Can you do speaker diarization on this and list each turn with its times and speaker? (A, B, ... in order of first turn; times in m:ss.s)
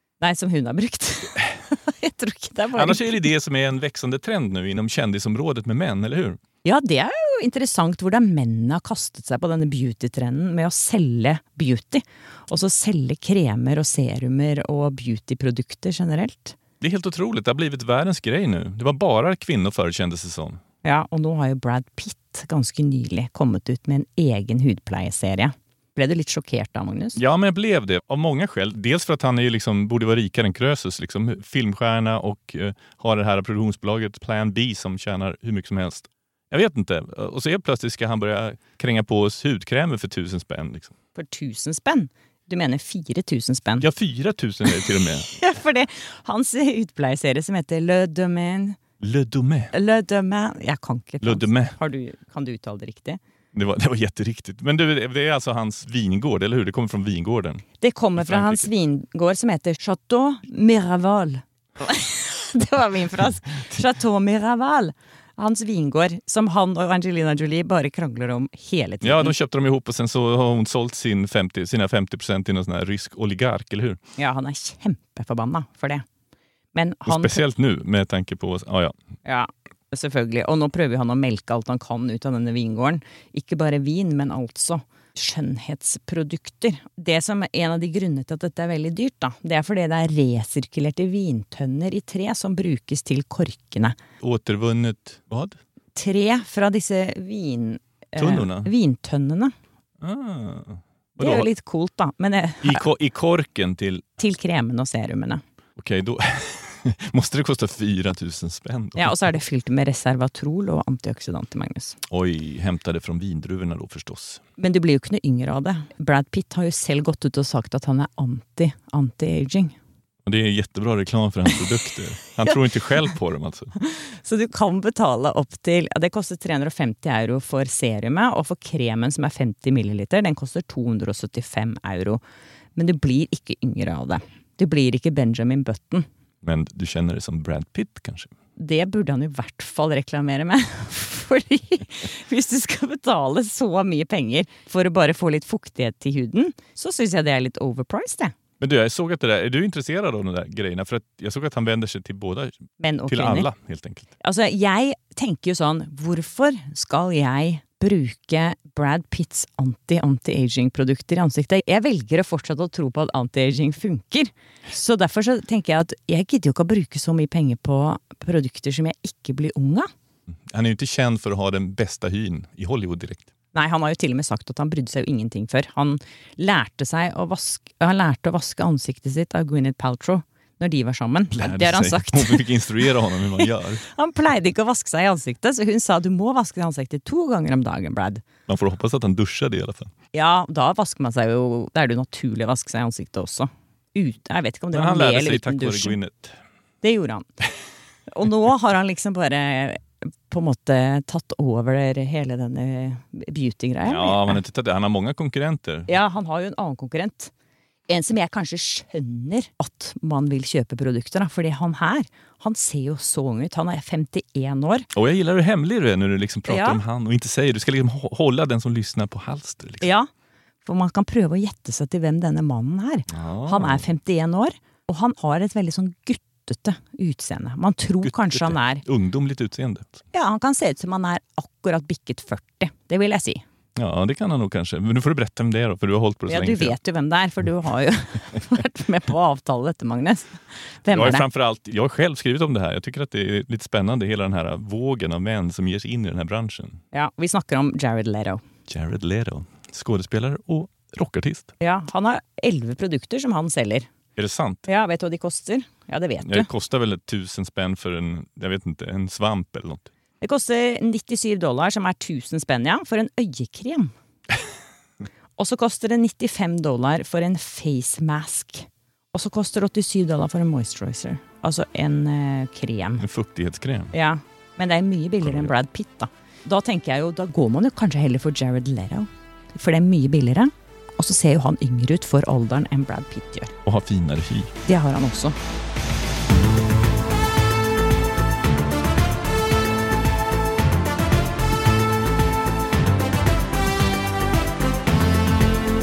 0:00.2-0:03.1 A
0:02.7-0:06.4 B
0:06.6-0:16.6 A
0:16.8-0:20.6 B
0:20.8-0:27.2 A
0:27.2-0:40.9 B
0:41.2-0:43.9 A
0:43.8-0:45.3 B
0:45.2-0:48.8 A
0:49.0-0:49.7 B
0:49.7-0:53.2 A
0:51.2-0:51.8 B
0:53.5-0:57.6 B
0:57.8-1:09.4 A
0:58.2-0:58.7 B
1:09.0-1:14.0 B
1:14.2-1:16.0 A
1:16.7-1:17.5 A
1:17.1-1:18.9 B
1:19.2-1:34.0 A
1:34.2-1:35.6 B
1:36.0-1:39.5 A
1:38.2-1:38.7 B
1:40.0-1:41.5 B
1:41.2-1:42.8 A
1:42.6-1:44.2 B
1:44.2-1:45.4 A
1:45.8-1:49.4 B
1:49.0-1:52.0 A
1:52.1-1:54.4 B
1:54.6-1:59.8 A
2:00.2-2:03.7 B
2:03.8-2:12.2 A
2:12.8-2:16.1 A
2:16.4-2:18.3 B
2:18.6-2:28.3 A
2:28.6-2:34.1 B
2:32.8-2:33.5 A
2:34.2-2:49.9 A
2:50.5-2:53.3 B
2:53.5-3:08.2 A
3:01.3-3:03.8 B
3:08.5-3:09.9 B
3:10.1-3:16.0 A
3:14.7-3:16.4 B
3:16.8-3:17.3 A
3:18.1-3:24.4 A
3:23.8-3:26.0 B
3:25.9-3:27.3 A
3:27.9-3:34.9 A
3:34.9-3:39.9 B
3:36.5-3:36.8 A
3:39.8-3:40.1 A
3:40.6-3:48.9 A
3:43.1-3:43.8 B
3:48.0-3:50.0 B
3:50.1-3:53.4 A
3:53.8-3:56.8 B
3:56.3-4:01.3 A
4:00.9-4:06.8 B
4:06.9-4:08.4 A
4:08.7-4:11.5 B
4:11.6-4:13.9 A
4:14.2-4:14.7 B
4:14.7-4:16.5 A
4:16.2-4:19.9 B
4:20.2-4:23.9 A
4:25.4-4:33.0 A
4:33.0-4:33.9 B
4:33.9-4:43.5 A
4:35.2-4:35.5 B
4:43.7-4:44.5 B
4:44.6-4:45.4 A